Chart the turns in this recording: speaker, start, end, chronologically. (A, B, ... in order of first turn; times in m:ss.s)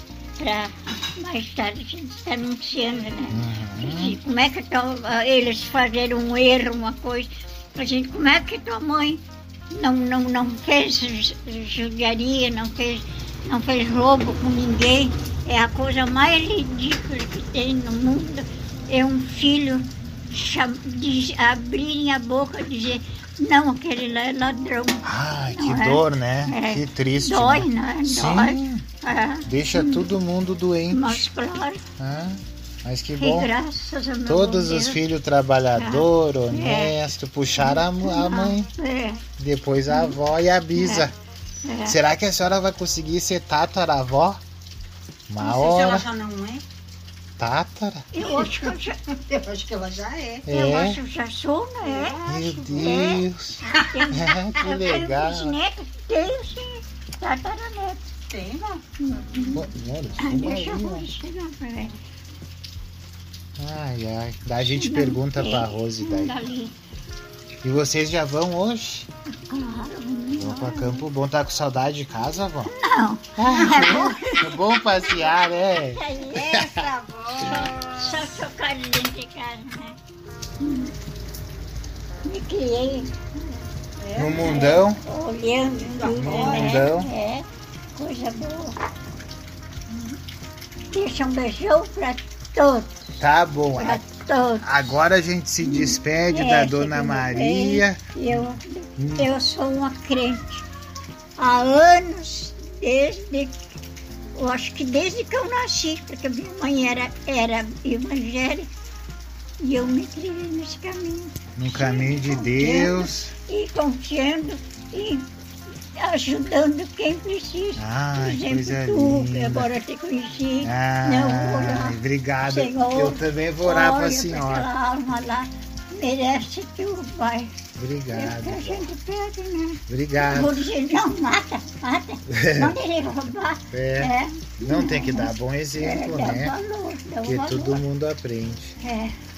0:00.4-0:30.1 A
0:03.3-0:04.2 B
0:25.0-0:28.8 B
0:29.4-0:31.2 B
0:30.9-0:31.8 A
0:32.0-0:33.5 B
0:33.2-0:35.0 A
0:34.2-0:38.7 B
0:35.8-0:39.2 A
0:39.4-0:41.1 B
0:39.9-0:40.2 A
0:40.8-0:41.0 A
0:41.6-0:42.0 A
0:41.8-0:44.4 B
0:45.3-0:46.0 B
0:45.4-0:46.6 C
0:47.4-0:48.1 B
0:48.1-0:49.0 A
0:48.2-0:50.4 C
0:50.4-0:51.0 B
0:50.5-0:52.2 A
0:51.8-0:53.2 C
0:52.2-0:55.5 B
0:52.8-0:58.0 A
0:53.7-0:54.1 C
0:58.3-0:58.8 C
0:59.0-0:59.7 A
0:59.5-1:01.0 B
1:00.2-1:02.0 A
1:03.6-1:06.4 B
1:04.6-1:06.7 A
1:07.6-1:09.1 B
1:09.4-1:11.0 A
1:10.4-1:12.7 B
1:12.7-1:14.5 A
1:13.4-1:16.8 B
1:15.9-1:16.6 A
1:16.3-1:17.7 C
1:17.4-1:20.0 A
1:20.6-1:20.9 A
1:22.2-1:23.2 A
1:24.0-1:24.8 C
1:24.1-1:25.0 B
1:24.4-1:28.8 A
1:25.8-1:26.8 C
1:26.2-1:27.1 B
1:30.9-1:33.0 A
1:33.2-1:34.0 B
1:33.8-1:34.9 A
1:34.6-1:38.4 B
1:35.6-1:40.6 A
1:39.0-1:39.3 B
1:41.4-1:43.5 A
1:44.3-1:48.7 A
1:49.6-1:55.3 A
1:51.6-1:53.3 B
1:55.9-2:07.5 A
1:57.8-1:59.7 B
2:00.6-2:04.7 B
2:07.8-2:08.9 B
2:08.1-2:17.8 A
2:09.9-2:10.7 B
2:12.3-2:12.8 B
2:13.7-2:16.6 B
2:17.2-2:18.8 B
2:18.8-2:19.1 A